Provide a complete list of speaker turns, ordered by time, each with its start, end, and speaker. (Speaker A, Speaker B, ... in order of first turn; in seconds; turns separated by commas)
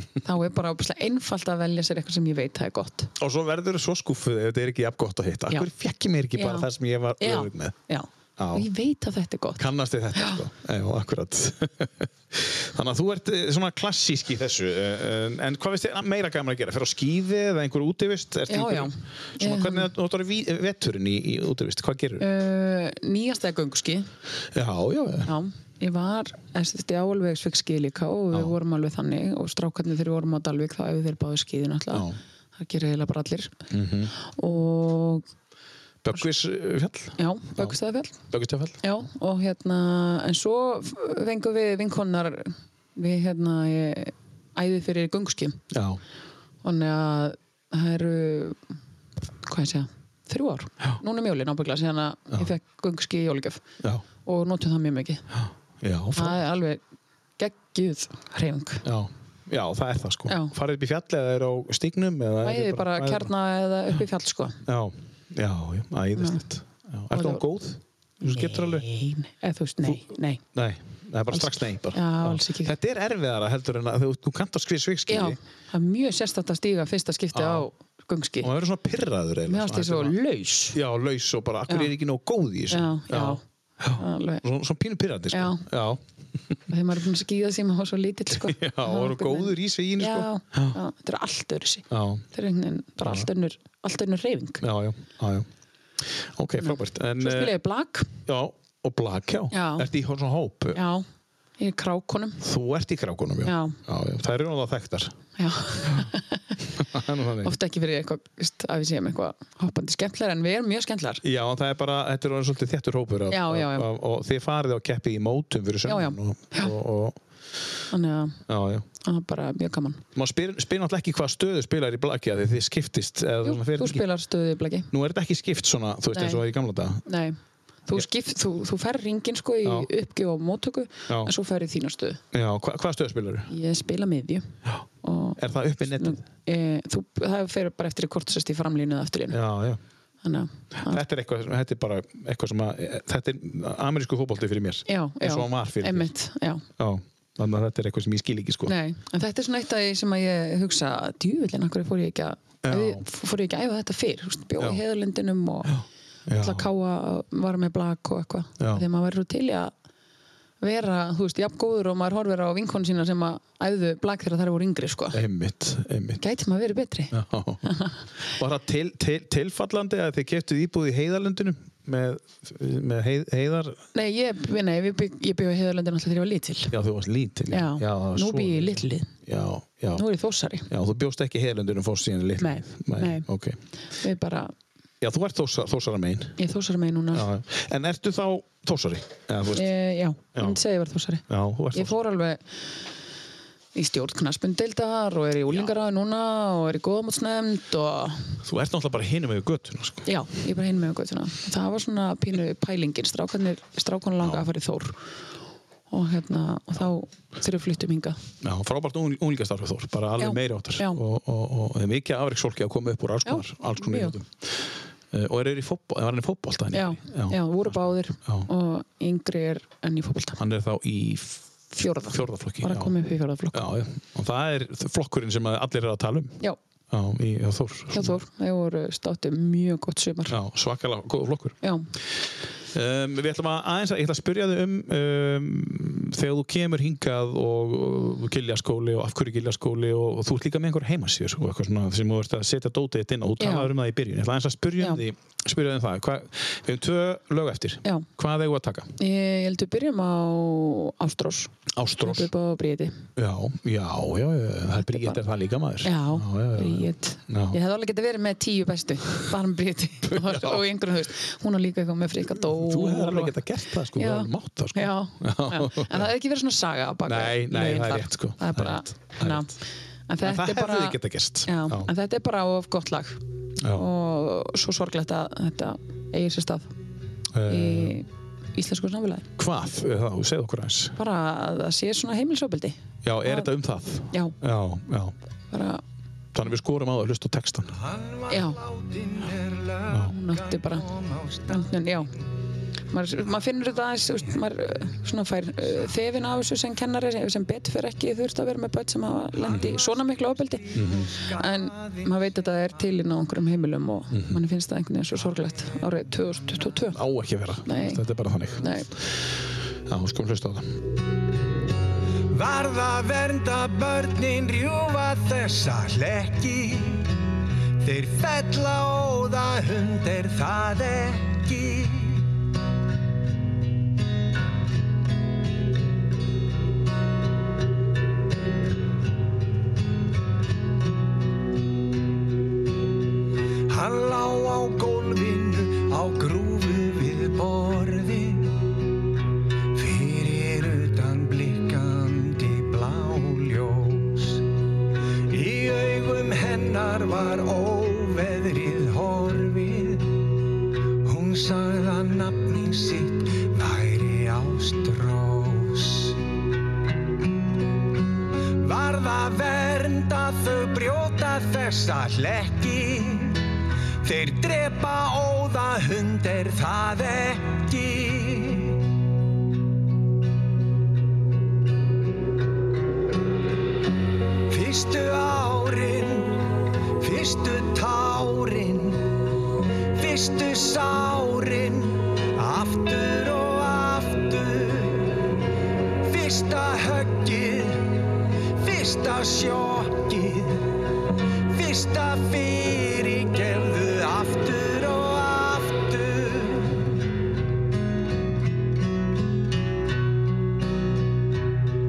Speaker A: 0.2-3.1, Speaker B: 3.2-7.8, Speaker A: 6.3-10.4, Speaker B: 8.4-8.7, Speaker B: 9.6-22.2, Speaker A: 18.5-19.9, Speaker A: 22.2-24.1, Speaker B: 24.5-25.3, Speaker A: 25.2-33.6, Speaker B: 31.9-32.2, Speaker B: 33.7-34.1, Speaker A: 34.2-35.2, Speaker B: 36.0-37.8, Speaker A: 37.2-38.2, Speaker B: 38.3-38.8, Speaker A: 38.8-45.6, Speaker B: 45.7-46.0, Speaker A: 46.6-48.6, Speaker A: 49.4-53.6, Speaker A: 54.2-55.2, Speaker B: 55.3-56.4, Speaker A: 56.1-56.8, Speaker A: 57.4-58.8, Speaker B: 58.8-63.3, Speaker A: 60.3-60.5, Speaker A: 62.4-64.6, Speaker B: 64.7-68.8, Speaker A: 66.2-66.4, Speaker A: 67.1-67.4, Speaker A: 68.2-70.4, Speaker B: 70.5-75.4, Speaker A: 71.3-72.7, Speaker A: 75.1-78.5, Speaker B: 77.3-77.7, Speaker B: 78.4-80.2, Speaker A: 79.5-80.8, Speaker B: 80.7-86.0, Speaker A: 82.7-83.4, Speaker A: 83.9-84.4, Speaker A: 85.3-85.7, Speaker A: 86.7-94.6, Speaker B: 88.3-90.8, Speaker B: 91.9-92.2, Speaker B: 93.0-93.3, Speaker B: 94.6-95.5, Speaker B: 96.0-97.6, Speaker A: 96.6-98.2, Speaker B: 98.2-100.8, Speaker A: 99.5-99.9, Speaker A: 100.7-101.0, Speaker A: 101.6-102.4, Speaker B: 102.4-105.2, Speaker A: 103.4-103.8, Speaker A: 105.4-106.6, Speaker B: 106.7-107.6, Speaker A: 107.4-111.2, Speaker B: 111.2-117.2, Speaker A: 113.3-113.9, Speaker A: 115.9-116.7, Speaker A: 117.9-118.4, Speaker B: 118.5-118.8, Speaker A: 119.0-120.0, Speaker B: 120.1-124.0, Speaker A: 123.4-124.9, Speaker B: 124.9-127.0, Speaker A: 126.1-126.4, Speaker A: 127.0-132.2, Speaker B: 129.6-129.9, Speaker B: 132.3-133.5, Speaker A: 133.5-135.4, Speaker B: 135.4-136.2, Speaker A: 135.9-139.4, Speaker B: 139.3-139.8, Speaker A: 140.2-141.0, Speaker B: 140.8-146.1, Speaker A: 144.9-146.6, Speaker B: 146.8-148.7, Speaker A: 148.7-155.8, Speaker B: 152.6-153.0, Speaker B: 155.7-156.7, Speaker A: 156.3-159.7, Speaker B: 158.6-158.8, Speaker A: 160.6-165.2, Speaker B: 165.1-166.2, Speaker A: 166.2-168.0, Speaker B: 167.1-173.8, Speaker A: 173.9-176.7, Speaker B: 176.7-180.1, Speaker A: 177.5-179.1, Speaker A: 179.9-180.7, Speaker B: 180.7-183.6, Speaker A: 182.4-183.3, Speaker A: 183.9-184.5, Speaker B: 185.0-186.4, Speaker A: 186.4-187.2, Speaker B: 187.1-189.7, Speaker A: 189.5-192.7, Speaker B: 191.3-191.9, Speaker A: 193.7-198.4, Speaker B: 198.4-200.1, Speaker A: 200.1-205.0, Speaker A: 205.9-208.2, Speaker B: 208.4-218.5, Speaker A: 210.2-211.0, Speaker A: 213.2-214.2, Speaker A: 216.7-220.4, Speaker B: 220.4-221.4, Speaker A: 221.7-223.7, Speaker B: 222.1-222.9, Speaker B: 223.5-226.4, Speaker B: 226.9-228.2, Speaker A: 227.9-230.3, Speaker B: 230.3-231.6, Speaker A: 231.6-231.9, Speaker B: 232.7-248.9, Speaker A: 243.4-243.7, Speaker A: 249.0-253.0, Speaker B: 251.7-252.3, Speaker B: 253.2-257.6, Speaker A: 254.9-255.2, Speaker A: 255.8-263.4, Speaker B: 260.0-260.6, Speaker B: 262.3-266.1, Speaker A: 263.9-269.6, Speaker B: 267.0-269.5, Speaker A: 270.1-273.2, Speaker B: 270.2-271.9, Speaker B: 273.6-273.9, Speaker A: 273.7-276.7, Speaker B: 277.3-278.0, Speaker A: 277.4-279.3, Speaker B: 279.4-281.0, Speaker A: 281.0-283.5, Speaker B: 283.0-285.1, Speaker A: 284.1-284.4, Speaker A: 285.5-285.8, Speaker B: 286.3-287.7, Speaker C: 287.7-291.7, Speaker A: 288.3-288.6, Speaker A: 290.0-290.9, Speaker A: 291.5-292.1, Speaker A: 292.9-307.0, Speaker B: 300.7-301.1, Speaker C: 300.7-301.9, Speaker B: 304.1-304.4, Speaker B: 306.9-308.8, Speaker A: 307.6-308.0, Speaker A: 308.6-308.9, Speaker B: 309.9-310.8, Speaker C: 312.3-317.1, Speaker C: 317.8-322.3, Speaker C: 333.7-338.7, Speaker C: 339.7-344.4, Speaker C: 345.3-350.3, Speaker C: 351.0-356.2, Speaker C: 358.5-363.4, Speaker C: 364.0-368.8, Speaker C: 374.5-379.1, Speaker C: 379.9-385.3, Speaker C: 386.0-390.8, Speaker C: 391.5-397.0